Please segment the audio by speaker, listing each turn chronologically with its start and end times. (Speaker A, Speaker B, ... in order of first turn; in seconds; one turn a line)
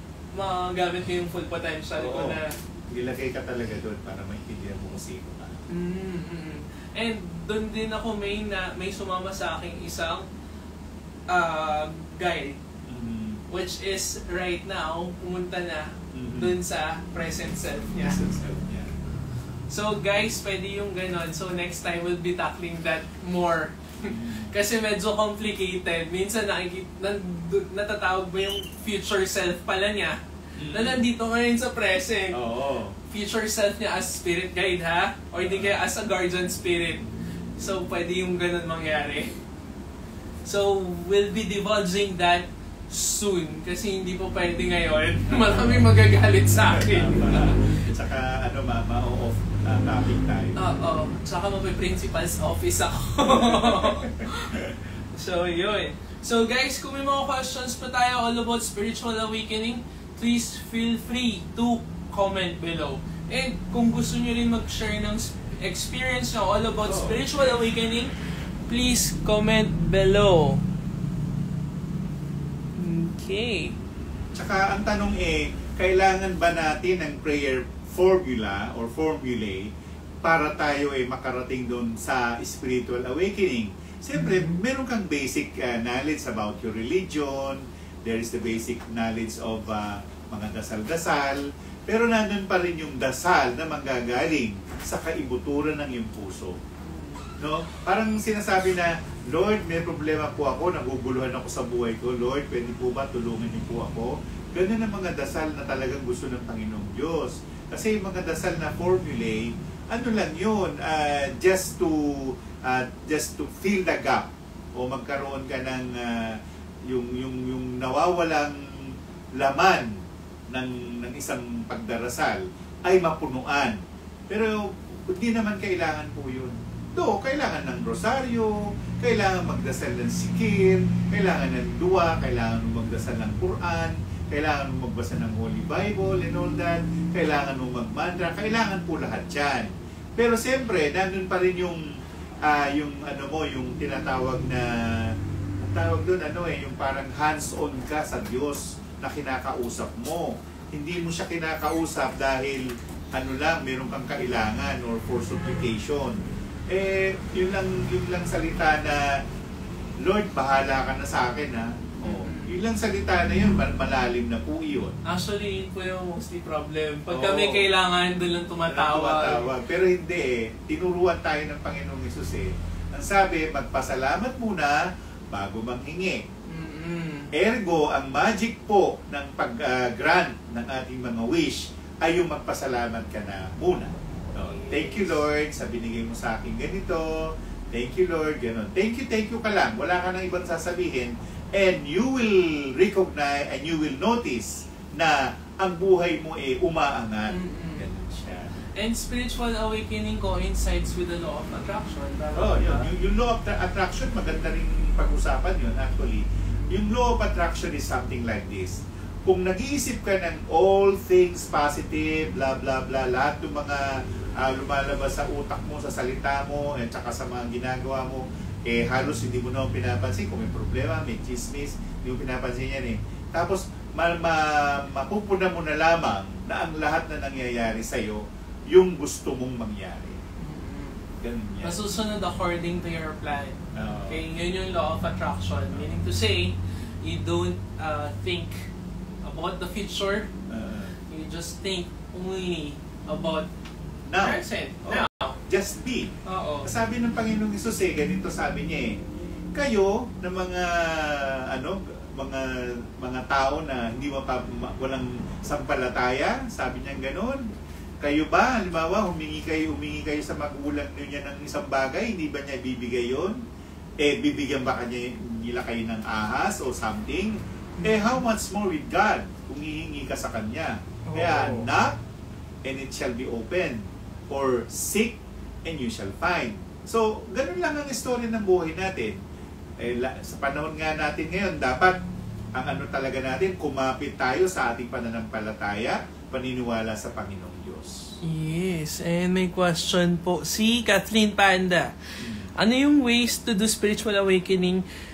Speaker A: 0.3-2.5
Speaker B: 2.0-5.6
Speaker A: 5.7-10.2
Speaker A: 11.3-12.6
Speaker B: 12.9-13.4
Speaker A: 13.5-18.2
Speaker B: 16.1-16.5
Speaker B: 18.0-19.0
Speaker A: 19.7-30.2
Speaker B: 24.0-24.5
Speaker B: 30.6-31.0
Speaker A: 30.7-32.4
Speaker B: 32.3-33.0
Speaker A: 33.1-37.0
Speaker B: 35.4-35.7
Speaker A: 37.6-39.3
Speaker A: 40.4-47.8
Speaker B: 45.3-45.9
Speaker B: 46.7-50.6
Speaker A: 50.5-54.5
Speaker B: 53.2-54.7
Speaker A: 55.1-68.1
Speaker B: 66.8-67.2
Speaker A: 68.7-70.6
Speaker A: 72.8-73.7
Speaker B: 74.3-79.7
Speaker B: 80.2-96.6
Speaker A: 84.1-84.6
Speaker A: 96.8-97.3
Speaker B: 97.4-119.9
Speaker B: 120.5-123.8
Speaker B: 124.3-141.8
Speaker B: 142.4-159.1
Speaker A: 155.3-155.7
Speaker B: 160.0-164.9
Speaker A: 162.0-162.6
Speaker A: 165.0-169.5
Speaker B: 167.1-167.7
Speaker B: 168.7-176.2
Speaker A: 176.5-177.3
Speaker B: 177.3-198.7
Speaker A: 184.4-185.2
Speaker A: 197.3-197.8
Speaker A: 198.7-202.9
Speaker B: 202.3-230.2
Speaker A: 230.4-231.1
Speaker B: 231.2-231.8
Speaker A: 231.6-238.7
Speaker B: 233.7-234.2
Speaker A: 239.2-240.3
Speaker B: 240.5-240.9
Speaker A: 241.1-243.5
Speaker B: 244.1-246.1
Speaker A: 244.2-245.4
Speaker A: 246.2-246.7
Speaker B: 246.6-249.0
Speaker B: 249.5-257.5
Speaker B: 258.0-263.4
Speaker B: 264.0-272.0
Speaker A: 267.8-268.2
Speaker A: 271.0-271.7
Speaker B: 272.6-279.1
Speaker B: 279.8-282.0
Speaker B: 282.5-288.1
Speaker A: 288.2-291.9
Speaker B: 292.2-292.5
Speaker A: 292.6-294.8